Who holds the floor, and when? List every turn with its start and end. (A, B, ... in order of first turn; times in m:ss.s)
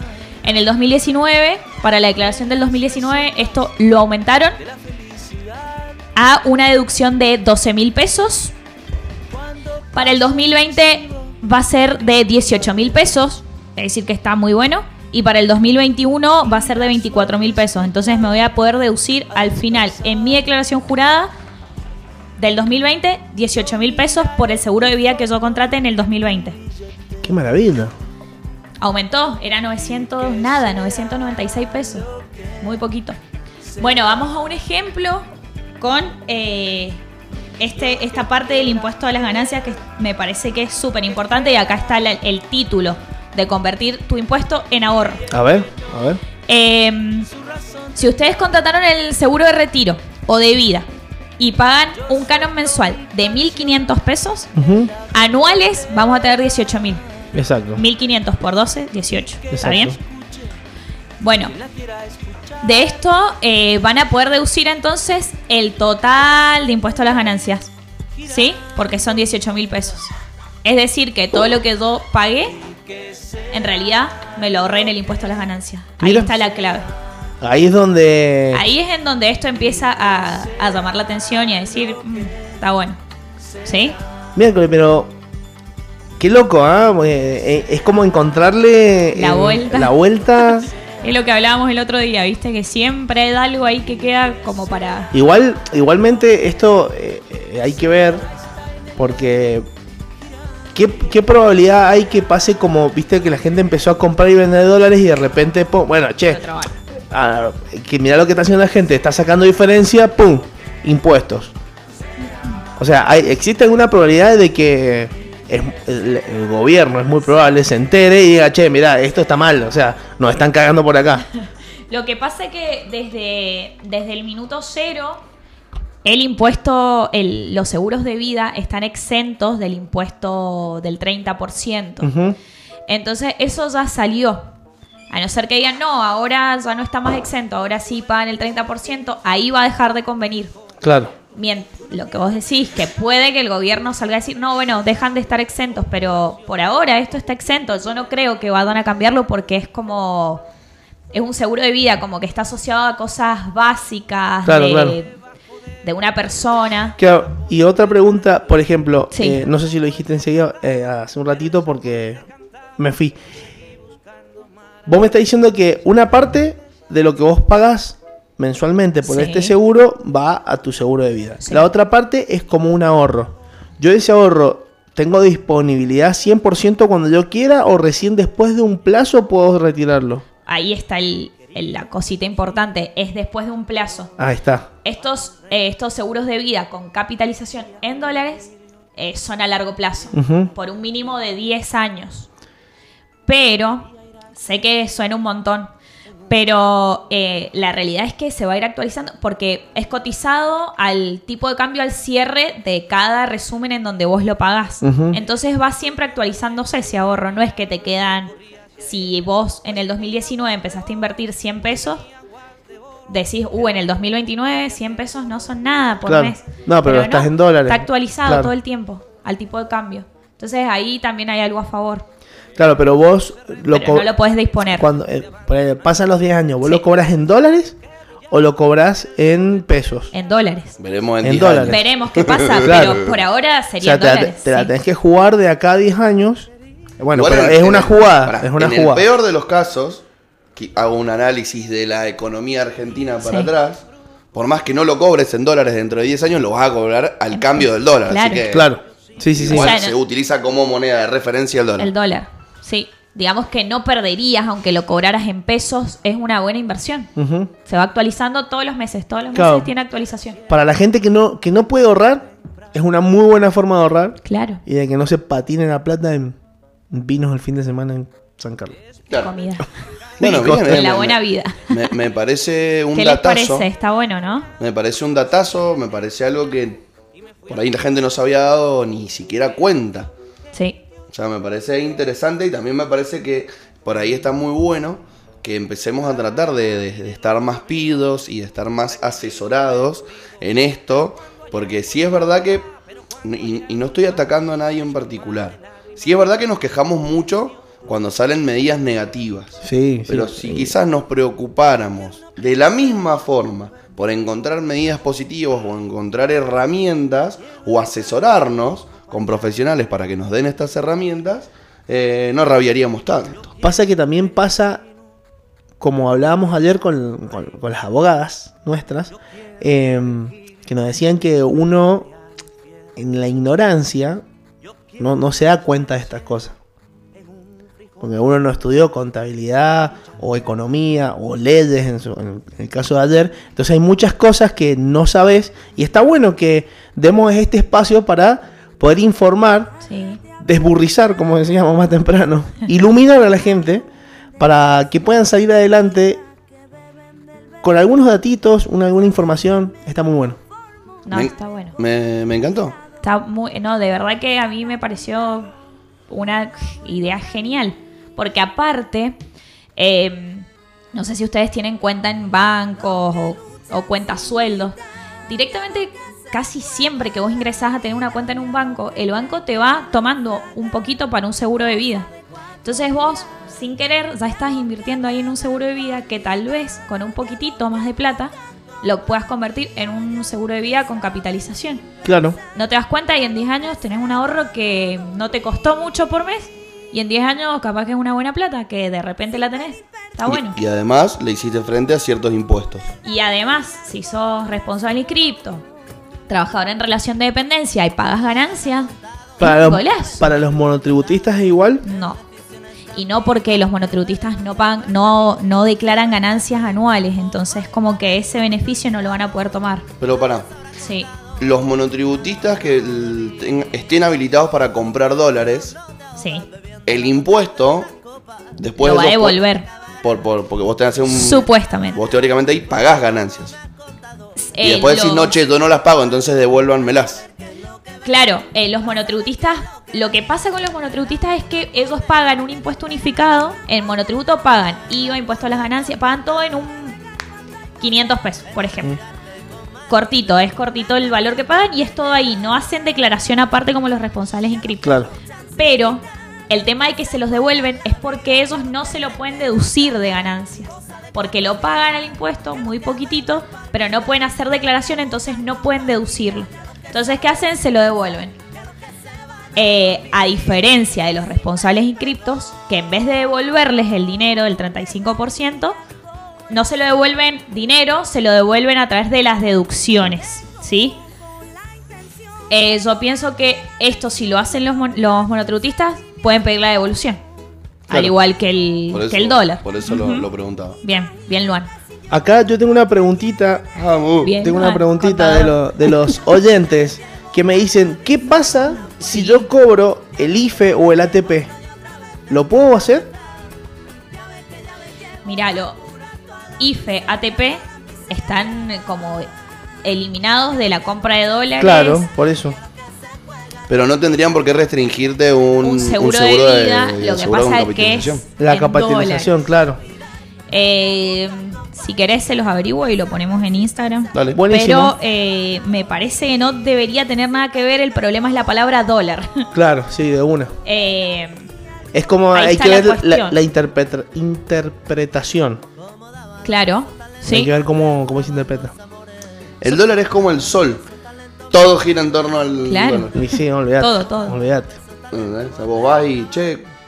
0:00.4-0:04.6 A
0:06.2-0:08.5 A
0:09.9-0:21.3 A
0:22.4-0:26.6 A
0:27.2-0:27.9 B
0:28.8-0:32.1 A
0:32.6-0:33.2 A
0:33.8-0:35.3 A
0:35.8-0:37.0 A
0:37.6-0:45.2 A
0:45.3-0:46.2 B
0:46.5-0:47.3 A
0:47.9-0:50.9 A
0:51.4-0:54.5 A
0:54.5-0:54.9 B
0:55.1-0:57.0 A
0:57.3-0:57.8 B
0:57.8-1:00.0 A
0:59.5-1:00.0 B
1:01.2-1:01.6 A
1:02.6-1:07.7 A
1:08.2-1:10.1 A
1:10.6-1:12.6 A
1:13.5-1:16.9 A
1:16.0-1:16.3 B
1:17.4-1:18.6 B
1:18.5-1:23.0 A
1:23.6-1:24.0 A
1:24.3-1:25.1 B
1:26.2-1:30.7 B
1:29.1-1:35.1 A
1:35.1-1:38.2 B
1:39.0-1:39.7 B
1:40.7-1:46.4 B
1:46.3-1:46.7 A
1:47.1-1:51.5 B
1:52.8-2:01.2 B
2:01.9-2:05.2 A
2:06.0-2:12.1 A
2:12.0-2:12.4 B
2:12.9-2:14.5 A
2:15.1-2:20.5 A
2:20.8-2:21.1 B
2:21.3-2:30.4 A
2:31.1-2:35.1 A
2:34.4-2:35.0 B
2:35.8-2:36.9 A
2:37.0-2:42.2 B
2:39.1-2:39.4 A
2:42.8-2:43.2 B
2:44.8-3:00.2 B
2:49.0-2:49.5 A
2:51.4-2:51.7 A
3:00.4-3:04.1 A
3:04.2-3:04.7 B
3:04.8-3:12.3 A
3:10.1-3:10.5 B
3:13.3-3:15.7 A
3:16.3-3:32.0 A
3:24.8-3:25.2 B
3:33.1-3:42.0 A
3:36.0-3:38.5 B
3:42.6-3:44.1 B
3:43.7-3:44.9 A
3:44.7-3:47.8 B
3:48.3-3:50.1 B
3:50.1-3:50.7 A
3:50.8-3:53.1 C
3:51.2-3:51.8 B
3:51.7-3:54.7 A
3:52.6-3:53.0 B
3:53.8-3:59.0 B
3:57.1-4:00.0 C
4:00.6-4:08.7 C
4:03.2-4:03.5 A
4:07.3-4:08.4 A
4:08.5-4:09.7 B
4:09.4-4:11.9 C
4:09.5-4:09.9 A
4:11.8-4:17.1 A
4:17.2-4:17.5 B
4:17.6-4:20.4 A
4:19.3-4:19.7 B
4:20.5-4:26.4 B
4:24.2-4:24.6 A
4:26.9-4:28.8 B
4:29.2-4:29.7 A
4:30.2-4:33.7 C
4:30.2-4:30.8 B
4:30.6-4:31.8 A
4:32.9-4:34.5 A
4:34.6-4:36.8 C
4:37.5-4:40.1 C
4:40.5-4:40.8 A
4:41.1-4:52.7 C
4:53.2-5:13.5 C
4:59.6-5:00.7 B
5:13.6-5:14.8 B
5:15.8-5:22.1 B
5:23.0-5:24.2 B
5:25.0-5:26.6 B
5:28.0-5:39.8 B
5:39.8-5:40.2 A
5:40.4-5:43.8 B
5:44.4-5:46.2 B
5:47.6-5:50.4 B
5:51.0-5:51.8 A
5:51.1-5:52.8 C
5:53.0-5:55.5 A
5:56.1-5:59.2 A
5:59.8-6:04.8 A
6:05.3-6:12.1 A
6:12.6-6:21.8 A
6:22.0-6:22.4 B
6:22.5-6:30.6 A
6:30.2-6:32.9 C
6:33.0-6:35.6 A
6:36.3-6:40.3 A
6:39.4-6:41.8 B
6:41.8-6:42.2 A
6:42.9-6:49.8 A
6:50.0-6:50.5 C
6:50.8-6:51.1 A
6:51.4-6:55.8 C
6:56.2-6:56.5 A
6:56.9-6:57.9 C
6:58.6-6:59.4 C
6:58.8-6:59.6 A
7:00.0-7:03.6 C
7:01.1-7:02.0 A
7:04.4-7:05.3 A
7:04.6-7:07.2 C
7:08.0-7:17.0 A
7:17.8-7:19.0 A
7:19.9-7:25.0 A
7:24.8-7:25.1 B
7:25.6-7:38.4 A
7:39.6-7:45.8 A
7:46.5-7:51.0 A
7:52.5-7:57.2 A
7:57.9-8:00.3 A
7:58.9-8:00.8 C
8:00.8-8:01.7 A
8:02.1-8:03.7 B
8:03.7-8:04.4 C
8:04.2-8:05.6 A
8:04.4-8:11.5 B
8:09.1-8:09.5 A
8:12.3-8:13.1 B
8:15.2-8:15.8 A
8:16.6-8:19.3 A
8:19.8-8:22.1 A
8:21.6-8:22.6 B
8:23.7-8:28.2 C
8:25.6-8:29.4 A
8:28.4-8:29.8 B
8:30.5-8:39.5 A
8:34.1-8:34.4 C
8:34.3-8:34.9 B
8:39.5-8:40.5 B
8:40.6-8:41.4 A
8:41.9-8:45.6 B
8:42.3-8:43.4 A
8:46.4-8:47.5 A
8:47.3-8:48.7 B
8:49.6-8:50.8 C
8:51.5-8:53.1 C
8:52.6-8:53.2 A
8:53.1-8:54.8 B
8:53.8-8:54.4 A
8:55.1-8:56.7 C